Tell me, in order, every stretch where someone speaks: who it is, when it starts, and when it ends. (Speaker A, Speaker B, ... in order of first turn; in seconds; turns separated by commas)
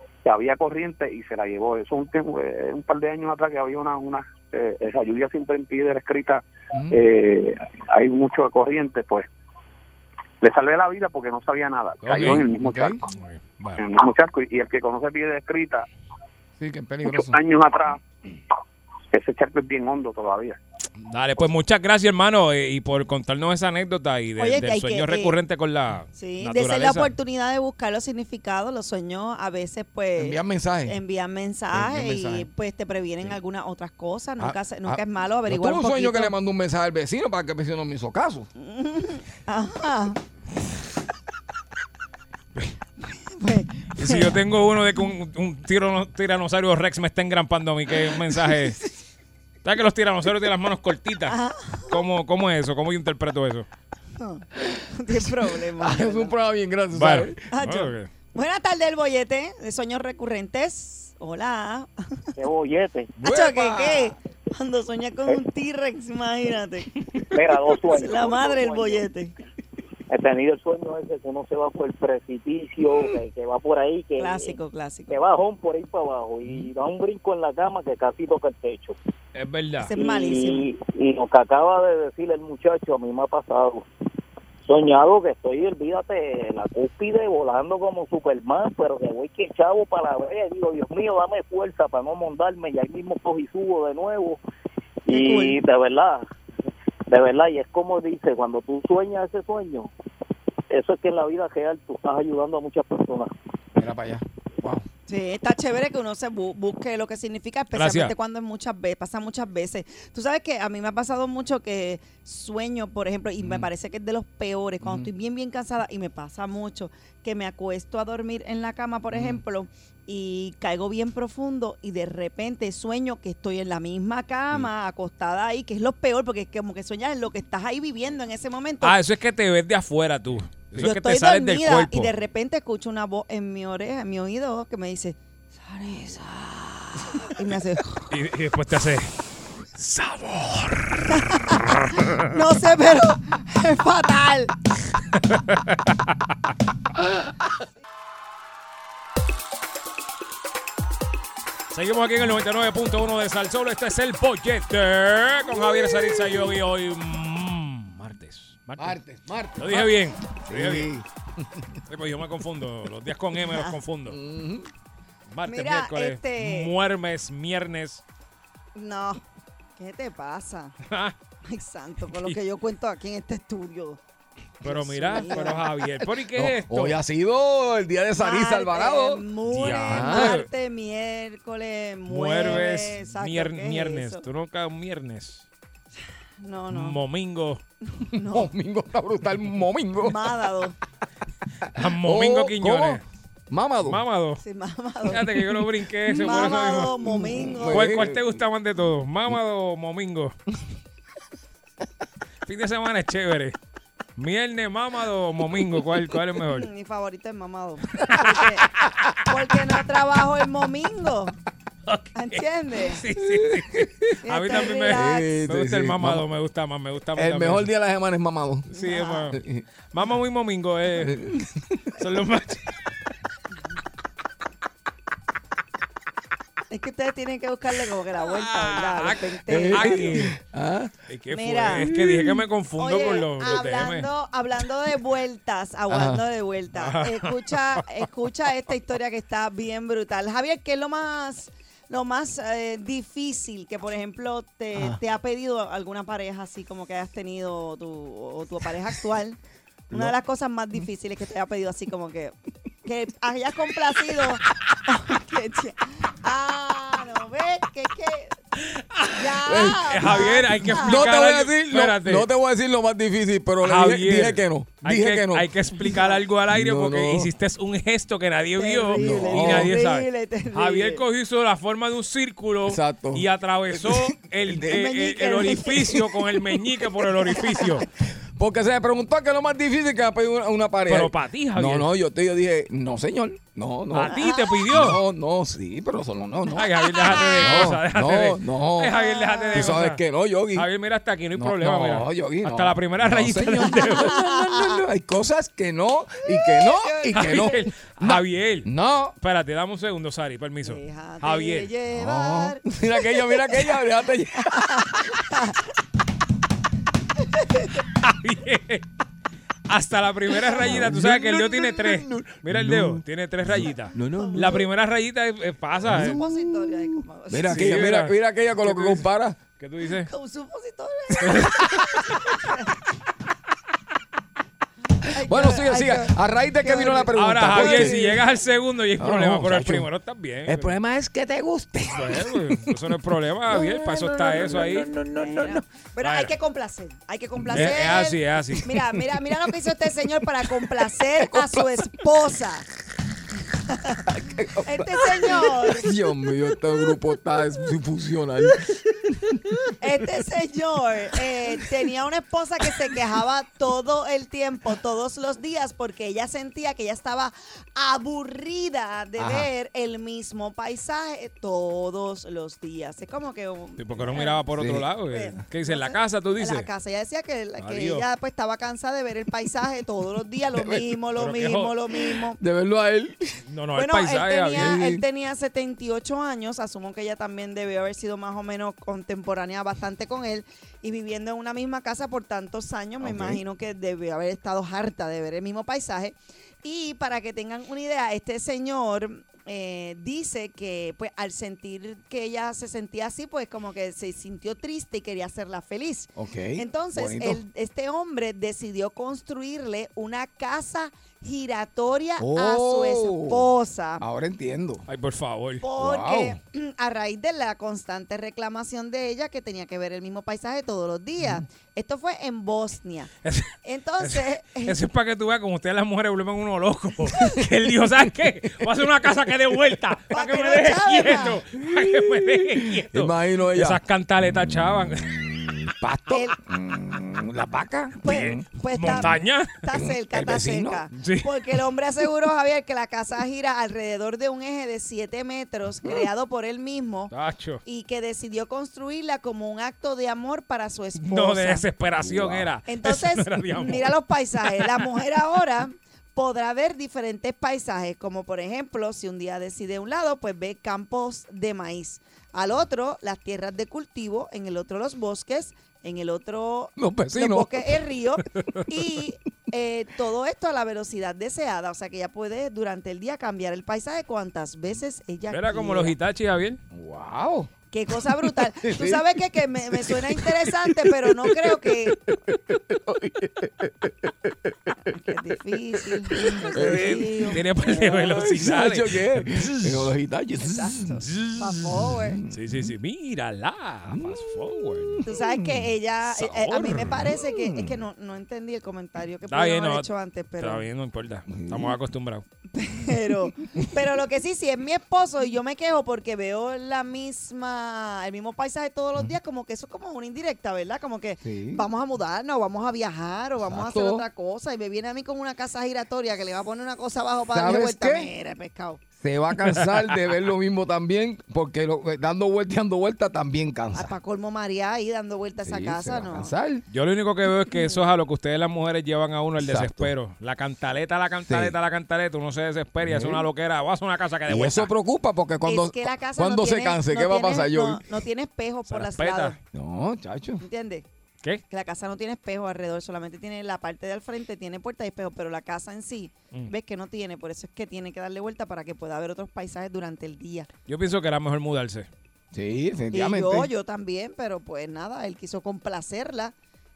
Speaker A: 0.2-9.3, Speaker B: 6.7-7.0, Speaker A: 10.4-13.0, Speaker C: 12.0-12.5, Speaker B: 12.2-13.0, Speaker C: 13.1-13.8, Speaker A: 13.8-15.9, Speaker B: 16.6-17.4, Speaker A: 17.0-18.0, Speaker A: 19.1-20.6, Speaker C: 21.1-27.1, Speaker D: 24.4-25.4, Speaker D: 26.1-36.3, Speaker B: 30.2-31.0, Speaker B: 31.7-32.5, Speaker B: 34.4-38.5, Speaker D: 38.6-40.2, Speaker D: 43.3-44.3, Speaker C: 44.0-48.8, Speaker C: 49.6-51.4, Speaker D: 51.3-52.0, Speaker C: 51.9-53.6, Speaker D: 54.2-56.3, Speaker B: 55.8-57.4, Speaker C: 56.9-58.1, Speaker D: 57.5-61.9, Speaker E: 62.4-63.1, Speaker B: 63.2-64.1, Speaker D: 63.2-66.9, Speaker E: 67.3-69.0, Speaker D: 67.9-69.3, Speaker E: 70.1-74.6, Speaker D: 74.2-75.1, Speaker E: 75.1-79.0, Speaker C: 79.3-79.9, Speaker D: 79.8-80.7, Speaker E: 79.9-83.9, Speaker E: 84.6-94.4, Speaker E: 95.1-96.2, Speaker D: 95.1-95.6, Speaker E: 97.1-99.9, Speaker E: 100.7-103.3, Speaker B: 103.8-104.9, Speaker D: 105.1-129.0, Speaker C: 107.7-108.1, Speaker B: 113.4-113.7, Speaker B: 114.8-115.1, Speaker B: 119.1-119.4, Speaker C: 128.8-132.1, Speaker D: 130.8-138.1, Speaker C: 138.1-139.1, Speaker C: 139.8-141.2, Speaker D: 141.1-144.5, Speaker C: 145.2-146.0, Speaker C: 151.7-159.0, Speaker B: 158.8-161.7, Speaker C: 159.6-160.9, Speaker C: 161.9-164.2, Speaker B: 164.1-164.7, Speaker C: 165.3-168.0, Speaker D: 165.5-166.7, Speaker D: 168.8-169.2, Speaker D: 169.8-170.8, Speaker C: 170.9-171.2, Speaker D: 171.5-174.0, Speaker C: 172.1-172.4, Speaker C: 174.6-177.0, Speaker D: 174.6-175.7, Speaker B: 175.1-179.2, Speaker D: 178.2-184.2, Speaker C: 179.5-180.5, Speaker B: 179.9-180.4, Speaker C: 182.1-185.5, Speaker D: 186.4-187.0, Speaker C: 186.7-187.6, Speaker D: 187.9-188.5, Speaker B: 188.2-190.4, Speaker D: 190.0-190.8, Speaker C: 191.7-193.0, Speaker B: 192.0-194.0, Speaker C: 193.8-194.4, Speaker D: 194.4-195.2, Speaker C: 195.1-197.0, Speaker D: 196.2-198.0, Speaker B: 196.2-198.4, Speaker C: 197.7-200.3, Speaker C: 202.5-203.6, Speaker C: 204.2-206.7, Speaker D: 206.5-208.7, Speaker D: 209.2-211.3, Speaker C: 211.9-217.7, Speaker D: 212.2-213.0, Speaker B: 213.2-213.9, Speaker D: 214.2-215.2, Speaker B: 214.9-216.2, Speaker B: 217.2-218.7, Speaker C: 218.7-219.4, Speaker D: 218.8-219.3, Speaker B: 219.3-219.6, Speaker C: 219.9-221.2, Speaker B: 221.0-221.8, Speaker C: 222.0-222.7, Speaker D: 226.7-230.2, Speaker C: 228.2-230.3, Speaker B: 229.5-231.0, Speaker C: 231.1-234.1, Speaker D: 231.3-231.9, Speaker B: 231.7-232.4, Speaker D: 232.8-249.4, Speaker B: 235.9-236.2, Speaker C: 236.8-237.8, Speaker D: 249.9-252.3, Speaker D: 252.8-258.4, Speaker C: 258.6-262.3, Speaker D: 259.1-261.1, Speaker B: 259.5-265.5, Speaker C: 263.6-277.9, Speaker D: 265.9-266.2, Speaker B: 266.5-267.3, Speaker D: 268.6-271.0, Speaker B: 268.9-269.7, Speaker B: 272.6-274.9, Speaker D: 274.7-276.0, Speaker D: 277.3-277.7, Speaker B: 278.4-289.0, Speaker C: 280.9-281.9, Speaker C: 283.9-285.0, Speaker D: 284.1-284.5, Speaker C: 286.5-290.0, Speaker D: 287.0-287.7, Speaker D: 288.9-289.8, Speaker B: 289.5-290.7, Speaker C: 290.5-294.1, Speaker B: 291.4-299.2, Speaker D: 293.8-294.8, Speaker D: 296.4-297.6, Speaker C: 297.1-298.7, Speaker C: 299.2-301.7, Speaker D: 300.6-303.7, Speaker B: 301.9-305.2, Speaker D: 304.7-305.6, Speaker D: 307.3-307.8, Speaker C: 308.0-308.9, Speaker C: 309.7-316.2, Speaker B: 310.5-314.7, Speaker D: 314.0-314.6, Speaker B: 315.8-319.4, Speaker D: 315.9-317.8, Speaker C: 317.5-319.1, Speaker C: 319.6-320.1, Speaker D: 320.0-322.7, Speaker C: 321.3-321.6, Speaker B: 321.3-321.8, Speaker D: 325.0-328.1, Speaker B: 325.2-328.2, Speaker C: 327.1-330.7, Speaker B: 329.0-329.9, Speaker B: 330.5-332.7, Speaker C: 331.9-334.9, Speaker B: 333.5-335.6, Speaker D: 335.2-342.7, Speaker C: 336.0-336.3, Speaker B: 337.4-338.1, Speaker C: 337.5-338.7, Speaker B: 340.6-341.9, Speaker D: 343.5-346.0, Speaker B: 344.2-349.7, Speaker D: 349.8-364.4, Speaker B: 359.2-359.5, Speaker C: 363.8-366.7, Speaker B: 364.6-364.9, Speaker D: 365.1-372.4, Speaker C: 367.6-368.1, Speaker B: 370.5-371.0, Speaker C: 371.2-371.7, Speaker B: 372.1-373.4, Speaker C: 373.5-374.8, Speaker D: 373.8-404.0, Speaker B: 374.5-375.0, Speaker B: 383.0-383.4, Speaker B: 396.2-397.4, Speaker B: 402.2-404.9, Speaker C: 404.9-405.6, Speaker D: 405.6-413.1, Speaker B: 405.8-406.4, Speaker C: 413.2-425.3, Speaker D: 413.6-414.8, Speaker D: 420.1-421.4, Speaker B: 421.6-423.8, Speaker B: 425.0-428.5, Speaker D: 426.1-426.4, Speaker D: 428.0-437.1, Speaker C: 428.1-429.6, Speaker B: 429.7-430.9, Speaker C: 431.0-431.3, Speaker C: 437.1-437.6, Speaker D: 437.6-441.6, Speaker C: 441.0-443.9, Speaker B: 442.0-442.5, Speaker D: 442.7-465.9, Speaker C: 444.4-444.8, Speaker B: 456.8-457.7, Speaker C: 465.3-466.6, Speaker B: 466.7-474.7, Speaker D: 467.7-472.0, Speaker D: 474.9-477.4, Speaker B: 476.1-481.0, Speaker C: 476.6-479.9, Speaker D: 480.4-482.2, Speaker C: 481.1-481.3, Speaker B: 481.6-482.4, Speaker C: 482.3-485.0, Speaker B: 483.9-487.8, Speaker D: 485.0-490.6, Speaker C: 489.3-492.2, Speaker B: 491.3-491.8, Speaker D: 492.5-508.8, Speaker B: 501.2-501.6, Speaker B: 503.4-504.0, Speaker B: 507.3-508.1, Speaker B: 509.0-513.9, Speaker D: 513.7-516.3, Speaker B: 515.4-516.7, Speaker C: 516.7-524.7, Speaker B: 519.4-519.9, Speaker B: 521.3-521.5, Speaker B: 522.8-523.3, Speaker B: 524.3-527.8, Speaker D: 525.5-529.4, Speaker C: 528.7-529.3, Speaker B: 529.5-530.4, Speaker D: 530.4-530.9, Speaker D: 531.5-540.5, Speaker C: 540.7-541.9, Speaker B: 542.3-543.5, Speaker D: 542.9-546.3